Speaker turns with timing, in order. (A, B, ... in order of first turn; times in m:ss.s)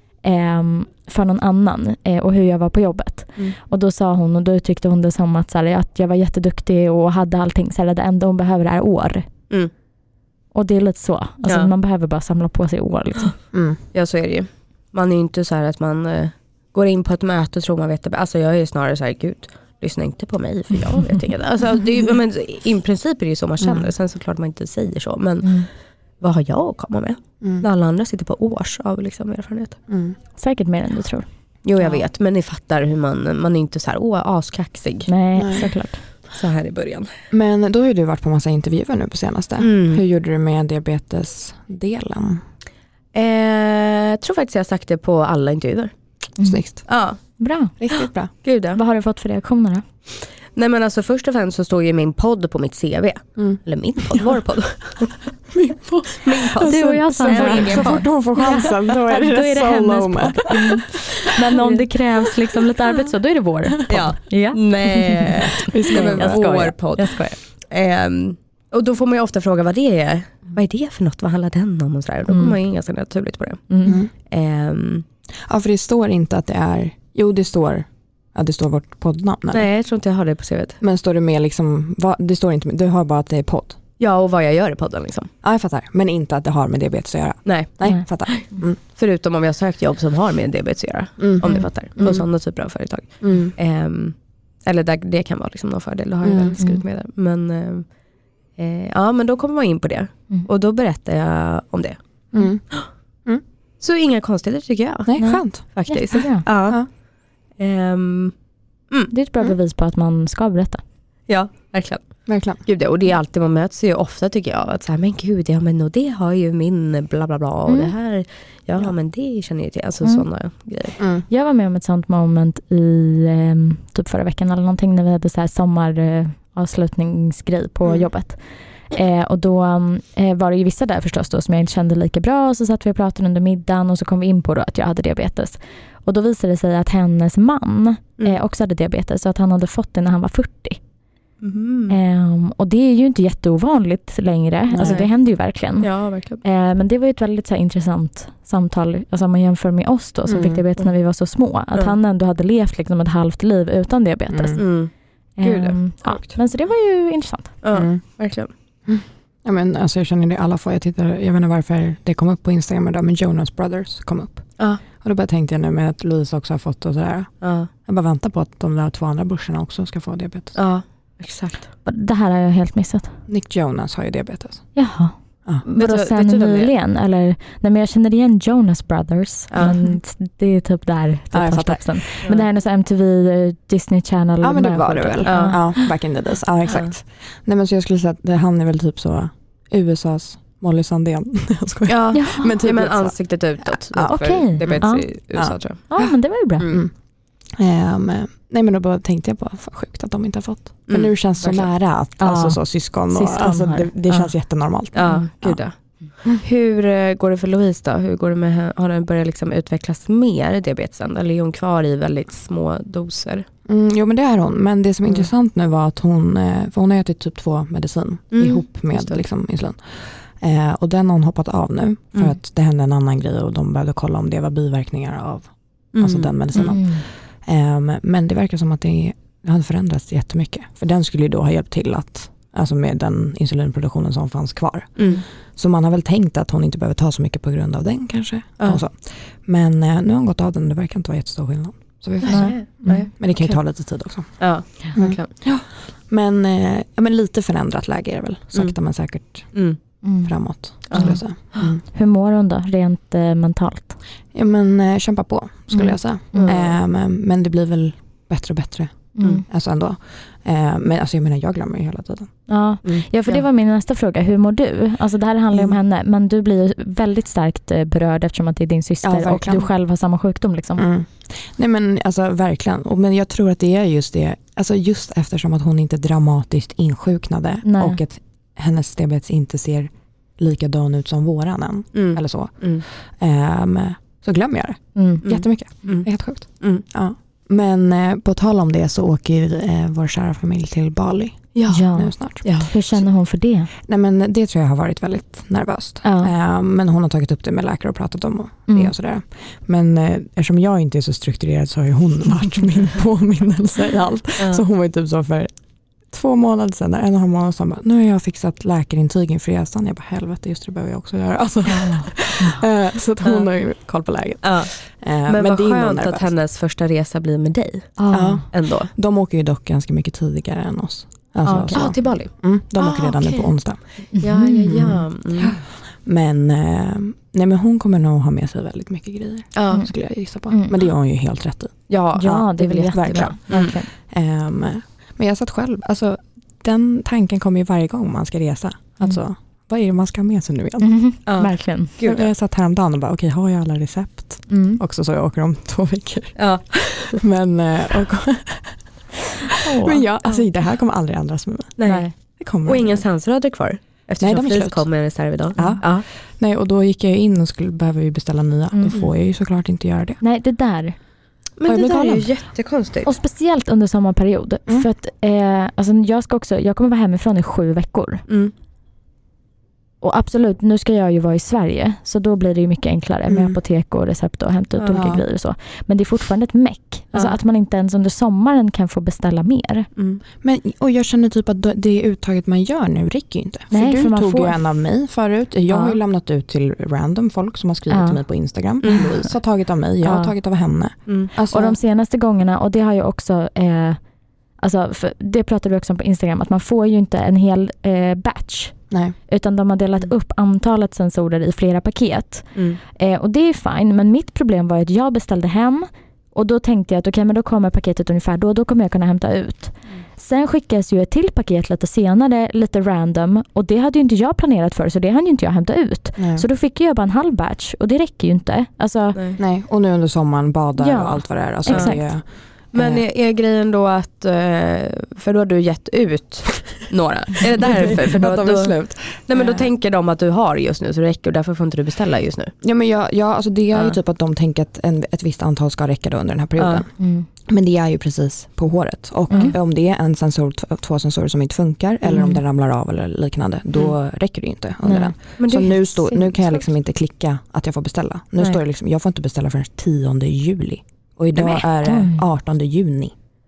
0:00.2-0:09.3 A
0:10.5-0:13.4 A
0:13.5-0:13.8 B
0:13.9-0:25.7 C
0:23.6-0:23.9 B
0:25.4-0:25.7 A
0:26.2-0:29.8 C
0:27.4-0:27.7 B
0:29.9-0:30.2 B
0:30.4-0:31.3 A
0:31.6-0:35.1 C
0:35.1-0:36.0 A
0:35.4-0:35.7 B
0:36.3-0:37.1 C
0:37.3-0:42.4 B
0:39.6-0:40.0 C
0:43.1-0:45.9 C
0:46.4-0:46.8 A
0:46.4-0:46.8 B
0:46.9-0:47.2 C
0:47.4-0:47.7 A
0:47.8-0:48.3 B
0:47.9-0:48.8 C
0:48.8-0:49.8 A
0:50.6-0:55.2 C
0:55.5-1:01.3 B
0:56.1-0:58.7 C
0:56.6-1:07.4 A
1:00.9-1:01.8 C
1:03.9-1:15.1 C
1:05.5-1:06.4 B
1:12.3-1:12.6 A
1:13.7-1:14.0 A
1:13.8-1:14.1 B
1:15.4-1:19.7 B
1:19.5-1:20.8 C
1:20.8-1:23.8 B
1:24.0-1:25.3 C
1:25.4-1:28.8 B
1:27.4-1:37.9 C
1:31.2-1:32.3 B
1:33.2-1:33.5 B
1:36.2-1:36.6 B
1:36.6-1:36.8 A
1:38.6-1:42.0 C
1:42.3-1:42.6 B
1:43.8-1:46.8 C
1:45.1-1:45.6 B
1:45.2-1:46.5 A
1:47.6-1:48.3 C
1:49.1-1:50.8 A
1:51.3-2:01.0 C
1:52.3-1:52.6 B
1:57.7-1:57.9 A
2:01.0-2:01.3 B
2:01.3-2:20.8 A
2:21.4-2:22.0 C
2:21.9-2:34.7 A
2:24.7-2:25.0 B
2:24.8-2:25.1 C
2:25.8-2:26.4 C
2:30.3-2:30.6 B
2:34.3-2:34.6 B
2:34.6-2:36.4 C
2:35.4-2:37.6 A
2:37.6-2:38.5 C
2:37.7-2:38.0 B
2:38.9-2:50.6 B
2:47.4-2:47.7 C
2:50.5-2:51.7 C
2:51.8-2:53.2 A
2:53.3-2:54.7 B
2:54.8-3:05.8 A
2:55.7-2:56.7 C
2:59.5-2:59.8 C
3:01.3-3:02.2 B
3:04.4-3:13.2 B
3:05.2-3:05.6 C
3:11.9-3:15.9 C
3:12.1-3:12.5 A
3:13.7-3:16.9 B
3:14.1-3:15.1 A
3:15.9-3:16.7 A
3:17.6-3:25.6 B
3:20.9-3:21.7 C
3:22.2-3:24.3 A
3:24.9-3:33.5 C
3:33.7-4:09.6 B
3:38.3-3:39.2 C
3:45.9-3:46.8 C
3:46.6-3:47.0 A
3:55.0-3:55.2 C
4:02.2-4:03.6 C
4:02.3-4:03.1 A
4:04.4-4:05.3 C
4:09.5-4:09.8 C
4:10.0-4:14.0 A
4:10.2-4:11.8 B
4:10.9-4:11.7 C
4:14.3-4:22.3 B
4:15.7-4:16.6 A
4:16.3-4:16.7 C
4:19.2-4:19.4 A
4:22.5-4:30.9 A
4:22.8-4:23.4 C
4:25.5-4:25.8 B
4:29.0-4:29.7 B
4:30.8-4:53.1 B
4:37.6-4:38.0 A
4:41.9-4:42.8 C
4:45.0-4:45.2 A
4:45.2-4:46.1 C
4:46.6-4:46.8 C
4:51.6-4:51.9 C
4:51.7-4:53.7 A
4:52.4-4:52.7 C
4:53.8-5:05.5 B
4:56.0-4:56.3 A
5:06.1-5:16.4 B
5:11.7-5:12.6 A
5:14.4-5:14.7 C
5:15.3-5:18.9 C
5:18.0-5:18.5 A
5:18.1-5:23.8 B
5:21.4-5:22.0 A
5:21.7-5:23.5 C
5:24.1-5:25.0 A
5:24.2-5:25.6 C
5:24.7-5:40.9 B
5:29.6-5:29.8 C
5:30.5-5:30.8 A
5:31.9-5:33.8 C
5:32.2-5:33.9 A
5:40.8-5:41.9 A
5:41.3-5:42.3 C
5:42.0-5:46.5 B
5:44.5-5:44.8 A
5:46.4-5:47.2 C
5:47.1-5:48.8 B
5:49.5-5:50.1 A
5:49.7-5:51.8 B
5:51.8-5:52.1 C
5:51.8-5:52.1 A
5:52.4-5:53.0 B
5:52.6-5:56.0 C
5:54.2-5:54.9 B
5:55.5-6:00.2 B
5:58.7-5:59.0 A
6:00.2-6:01.0 A
6:01.6-6:03.1 C
6:01.7-6:02.3 B
6:03.1-6:08.3 A
6:08.3-6:08.5 C
6:10.0-6:19.9 A
6:13.3-6:13.6 B
6:14.8-6:15.1 C
6:14.9-6:15.2 B
6:20.0-6:20.2 C
6:20.4-6:31.8 B
6:23.7-6:24.6 A
6:25.7-6:26.0 A
6:27.9-6:28.2 A
6:28.8-6:29.2 C
6:30.0-6:30.3 A
6:31.4-6:34.0 A
6:34.6-6:59.2 A
6:38.9-6:39.2 B
6:42.6-6:42.8 C
6:56.2-6:56.5 B
6:59.1-6:59.4 C
6:59.4-7:03.0 B
7:00.8-7:02.1 A
7:01.7-7:02.0 C
7:02.7-7:12.5 C
7:07.6-7:09.7 B
7:12.6-7:16.9 B
7:16.6-7:16.8 C
7:17.0-7:17.3 A
7:17.5-7:33.1 B
7:19.3-7:19.6 A
7:22.1-7:22.4 A
7:24.8-7:25.3 A
7:25.4-7:26.3 C
7:31.4-7:31.6 C
7:31.8-7:32.2 A